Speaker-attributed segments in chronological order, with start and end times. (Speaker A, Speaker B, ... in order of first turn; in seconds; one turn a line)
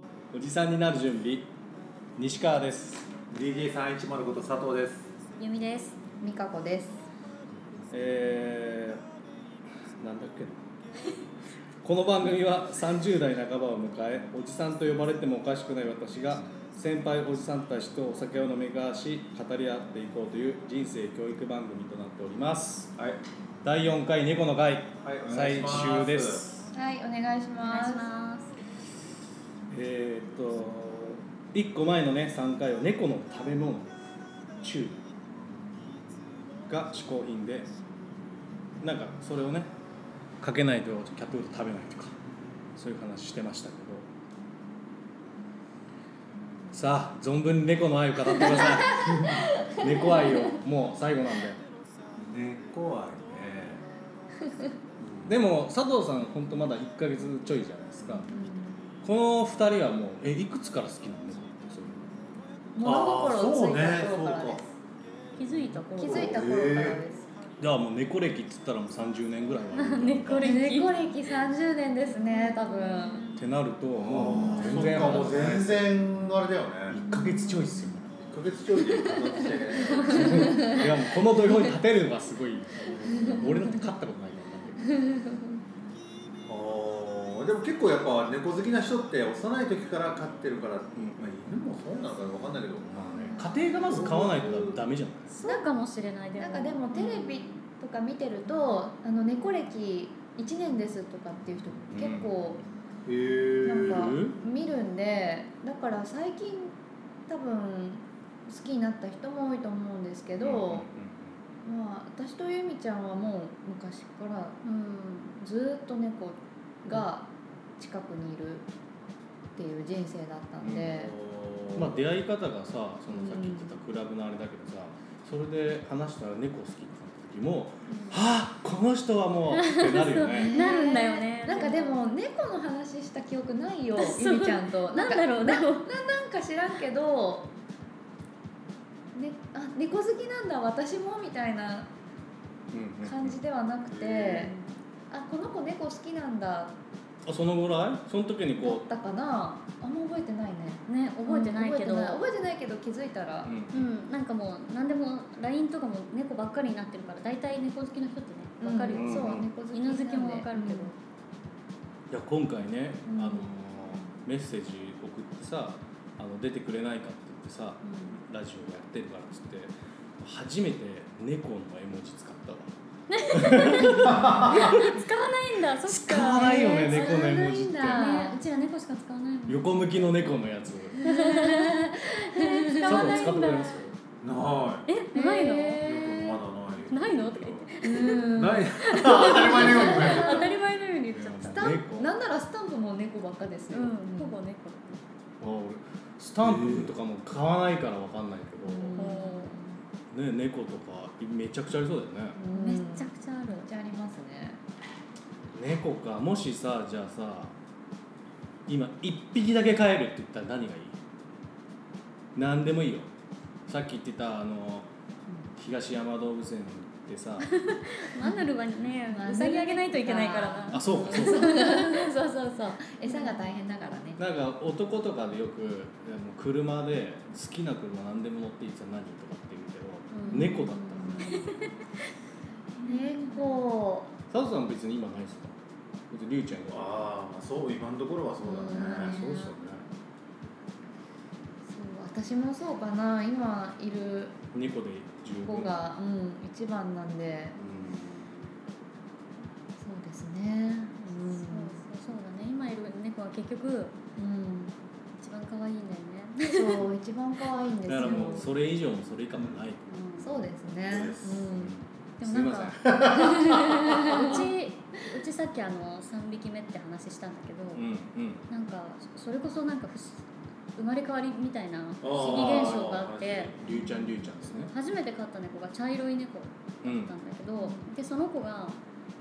Speaker A: 0.3-1.5
Speaker A: 2.2-3.1
Speaker B: 3.3-5.1
Speaker C: 5.4-6.0
Speaker D: 6.2-7.0
Speaker A: 7.9-9.0
Speaker A: 9.9-10.7
Speaker A: 11.8-22.9
Speaker A: 23.6-26.7
Speaker B: 25.0-26.5
Speaker D: 26.7-28.1
Speaker C: 27.6-28.6
Speaker A: 29.7-34.0
Speaker A: 34.6-35.0
Speaker A: 36.7-37.8
Speaker A: 38.8-39.7
Speaker A: 40.4-42.1
Speaker A: 42.8-44.1
Speaker A: 46.7-51.6
Speaker D: 48.8-50.4
Speaker B: 52.1-53.9
Speaker B: 55.0-55.4
Speaker A: 55.3-58.3
Speaker D: 58.3-58.8
Speaker A: 59.0-62.0
Speaker D: 62.8-64.8
Speaker B: 62.8-64.6
Speaker C: 65.4-66.4
Speaker D: 66.0-67.3
Speaker B: 66.0-67.0
Speaker A: 67.6-70.5
Speaker C: 69.8-71.0
Speaker D: 70.4-73.3
Speaker C: 72.2-73.4
Speaker A: 73.3-76.0
Speaker B: 74.0-77.0
Speaker D: 74.3-75.2
Speaker A: 76.9-78.3
Speaker D: 77.1-78.0
Speaker B: 78.2-80.8
Speaker D: 78.9-80.9
Speaker A: 80.0-84.9
Speaker D: 81.5-81.7
Speaker B: 82.8-83.5
Speaker D: 83.0-83.9
Speaker D: 84.9-85.6
Speaker B: 86.5-92.9
Speaker A: 91.0-91.2
Speaker A: 92.9-95.3
Speaker B: 93.6-94.8
Speaker C: 95.3-97.6
Speaker D: 96.4-102.6
Speaker A: 101.9-102.3
Speaker B: 103.1-104.2
Speaker D: 103.6-106.7
Speaker A: 103.8-104.4
Speaker D: 107.3-110.9
Speaker A: 110.4-111.4
Speaker D: 111.6-114.6
Speaker C: 114.6-115.4
Speaker D: 115.4-118.7
Speaker D: 119.6-121.1
Speaker A: 120.6-120.9
Speaker B: 120.7-122.0
Speaker A: 121.8-130.7
Speaker D: 123.1-123.8
Speaker C: 129.5-132.0
Speaker D: 130.3-137.5
Speaker C: 134.0-135.9
Speaker D: 139.1-141.9
Speaker A: 142.7-143.4
Speaker D: 143.0-144.6
Speaker B: 143.9-144.5
Speaker D: 145.1-146.8
Speaker A: 147.2-148.8
Speaker D: 148.6-153.6
Speaker C: 150.9-152.2
Speaker A: 153.4-153.9
Speaker C: 153.7-160.9
Speaker D: 158.6-160.9
Speaker A: 158.8-159.5
Speaker A: 162.1-172.8
Speaker D: 163.1-163.5
Speaker D: 167.9-168.2
Speaker C: 173.1-180.4
Speaker A: 173.3-175.0
Speaker B: 174.1-174.6
Speaker A: 175.8-178.2
Speaker D: 176.7-178.4
Speaker A: 179.5-181.0
Speaker D: 181.0-183.8
Speaker C: 181.0-183.8
Speaker A: 182.8-183.9
Speaker B: 184.2-184.9
Speaker C: 184.9-185.8
Speaker D: 185.1-186.4
Speaker B: 185.8-190.5
Speaker C: 186.9-191.8
Speaker D: 187.8-190.6
Speaker A: 191.1-192.1
Speaker D: 191.5-194.4
Speaker C: 193.7-195.0
Speaker A: 195.4-199.1
Speaker B: 196.4-196.9
Speaker D: 198.7-199.8
Speaker C: 198.9-199.6
Speaker A: 200.1-202.4
Speaker D: 202.4-204.6
Speaker C: 202.5-203.7
Speaker A: 205.5-207.5
Speaker A: 208.7-211.0
Speaker A: 212.3-213.1
Speaker A: 213.7-214.9
Speaker A: 215.6-217.5
Speaker C: 217.4-222.1
Speaker D: 218.2-218.4
Speaker D: 219.1-224.2
Speaker A: 220.7-221.6
Speaker C: 223.1-223.4
Speaker A: 224.2-231.6
Speaker C: 230.1-231.8
Speaker D: 230.2-231.5
Speaker D: 232.8-234.1
Speaker C: 232.8-233.6
Speaker A: 234.3-235.6
Speaker A: 236.1-237.2
Speaker B: 236.7-239.2
Speaker D: 238.4-239.5
Speaker A: 238.7-239.9
Speaker D: 241.7-244.4
Speaker A: 244.5-245.8
Speaker D: 245.4-248.0
Speaker C: 247.6-248.2
Speaker A: 247.6-248.1
Speaker D: 249.8-251.8
Speaker C: 251.0-254.0
Speaker D: 254.2-254.8
Speaker C: 255.2-256.9
Speaker D: 256.5-258.5
Speaker A: 257.9-259.9
Speaker C: 258.0-258.4
Speaker C: 259.9-260.4
Speaker D: 260.2-261.7
Speaker B: 260.9-261.5
Speaker A: 261.5-263.0
Speaker C: 262.2-267.9
Speaker B: 262.8-264.2
Speaker D: 264.0-264.5
Speaker A: 267.8-268.5
Speaker C: 268.5-273.5
Speaker B: 272.0-273.6
Speaker A: 273.6-274.7
Speaker D: 273.7-274.1
Speaker C: 274.4-278.8
Speaker A: 276.8-277.1
Speaker D: 277.6-277.8